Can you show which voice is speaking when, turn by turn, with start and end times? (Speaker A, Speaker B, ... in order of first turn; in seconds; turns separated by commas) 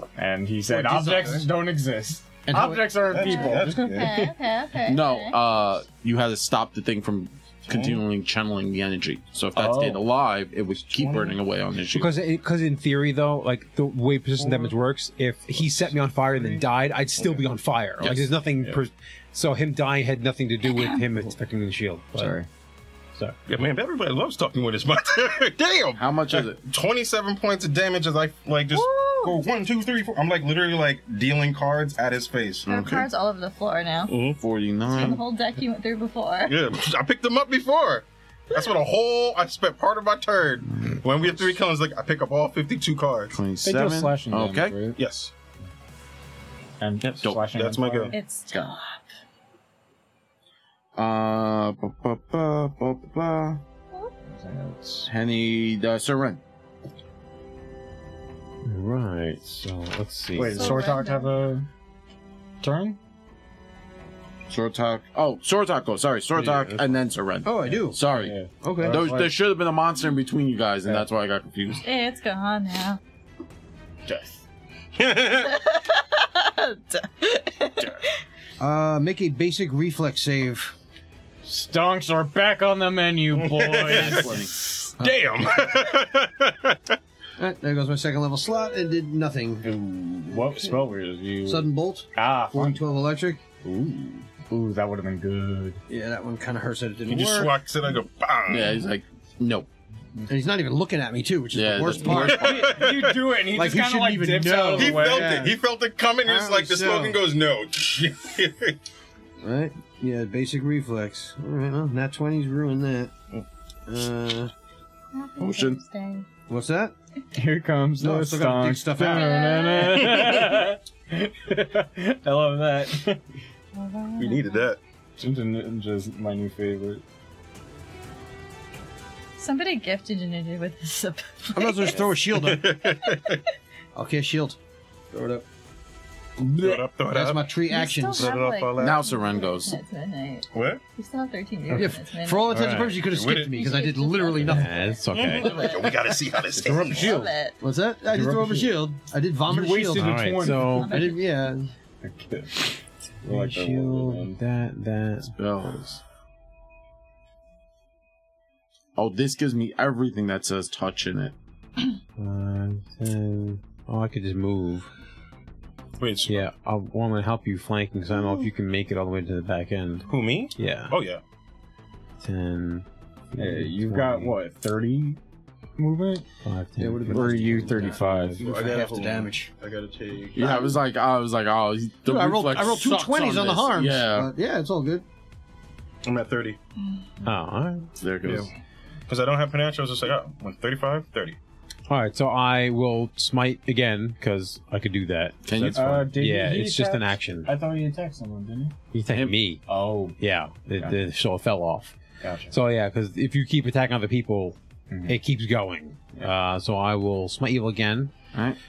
Speaker A: 0.2-4.3, Speaker B: 0.7-1.5, Speaker C: 2.5-2.8, Speaker B: 3.1-4.3, Speaker D: 3.2-5.4, Speaker E: 4.8-12.2, Speaker B: 7.7-8.0, Speaker A: 9.6-10.1, Speaker B: 10.9-11.4, Speaker F: 11.9-22.4, Speaker B: 17.2-17.5, Speaker A: 18.1-18.8, Speaker B: 23.5-32.7, Speaker E: 26.0-26.6, Speaker D: 28.7-29.4, Speaker E: 32.7-33.1, Speaker D: 32.7-34.1, Speaker B: 34.1-34.4, Speaker E: 34.4-35.2, Speaker D: 34.9-36.6, Speaker B: 36.5-43.4, Speaker E: 43.3-44.8, Speaker A: 43.6-45.0, Speaker B: 45.0-45.3, Speaker A: 46.8-48.2, Speaker B: 47.0-48.1, Speaker D: 48.1-49.0, Speaker E: 51.0-53.6, Speaker A: 54.2-55.1, Speaker E: 55.1-56.4, Speaker F: 58.6-60.9, Speaker A: 60.3-61.7, Speaker D: 60.5-61.3, Speaker A: 62.6-63.0, Speaker E: 64.5-68.3, Speaker F: 66.4-66.9, Speaker C: 67.5-68.0, Speaker A: 68.0-69.4, Speaker C: 68.6-69.1, Speaker E: 68.9-71.8, Speaker D: 71.8-73.0, Speaker A: 74.1-74.4, Speaker B: 75.0-75.5, Speaker D: 75.3-78.1, Speaker C: 78.6-80.7, Speaker A: 81.4-84.5, Speaker B: 83.3-87.0, Speaker E: 83.9-84.5, Speaker C: 85.0-85.3, Speaker C: 87.4-89.7, Speaker A: 89.6-92.8, Speaker C: 90.4-90.6, Speaker C: 91.4-93.4, Speaker A: 93.6-95.8, Speaker C: 95.9-97.6, Speaker B: 97.1-98.8, Speaker E: 98.5-99.7, Speaker C: 100.3-102.5, Speaker E: 101.5-102.8, Speaker A: 102.0-105.5, Speaker B: 102.0-103.2, Speaker C: 103.5-105.6, Speaker B: 104.8-108.8, Speaker C: 106.2-107.2, Speaker C: 109.4-113.1, Speaker C: 113.9-114.5, Speaker D: 115.1-116.3, Speaker E: 115.4-115.8, Speaker C: 116.5-116.9, Speaker A: 117.3-123.2, Speaker C: 118.0-119.3, Speaker D: 119.1-120.5, Speaker D: 123.7-124.7, Speaker B: 124.2-124.8, Speaker A: 125.2-127.0, Speaker D: 129.4-132.1, Speaker C: 131.5-132.8, Speaker B: 132.3-133.4, Speaker C: 133.9-134.6, Speaker C: 135.1-135.4, Speaker C: 136.4-138.4, Speaker B: 136.6-137.5, Speaker D: 137.7-142.5, Speaker B: 138.1-139.1, Speaker E: 138.8-139.8, Speaker B: 140.5-140.8, Speaker C: 141.7-144.8, Speaker F: 142.5-143.0, Speaker B: 143.0-143.6, Speaker D: 143.5-146.0, Speaker F: 144.4-145.8, Speaker B: 145.1-147.2, Speaker F: 146.6-147.3, Speaker D: 146.6-147.6, Speaker C: 147.6-150.3, Speaker A: 148.1-148.7, Speaker A: 149.5-150.9, Speaker F: 150.0-151.0, Speaker D: 150.5-151.2, Speaker C: 150.8-151.7, Speaker A: 152.0-154.4, Speaker F: 153.2-155.3, Speaker E: 155.2-156.0, Speaker E: 159.0-161.3, Speaker F: 162.2-164.9, Speaker B: 166.0-166.5, Speaker F: 166.3-171.0, Speaker B: 170.1-171.2, Speaker F: 172.2-174.4, Speaker A: 173.4-175.2, Speaker A: 175.8-176.3, Speaker F: 176.4-178.4, Speaker C: 176.8-179.5, Speaker A: 177.1-178.5, Speaker B: 178.4-180.6, Speaker E: 180.3-184.3, Speaker C: 180.4-180.8, Speaker C: 182.1-185.1, Speaker B: 186.0-186.6, Speaker F: 187.2-187.9, Speaker E: 188.0-188.5, Speaker B: 189.1-191.4, Speaker F: 191.9-197.5, Speaker E: 195.4-196.1, Speaker A: 195.7-198.8, Speaker F: 198.9-199.6, Speaker E: 199.1-199.4, Speaker A: 199.7-200.2, Speaker F: 200.2-201.9, Speaker A: 202.2-202.6, Speaker F: 202.5-208.1, Speaker A: 204.9-205.2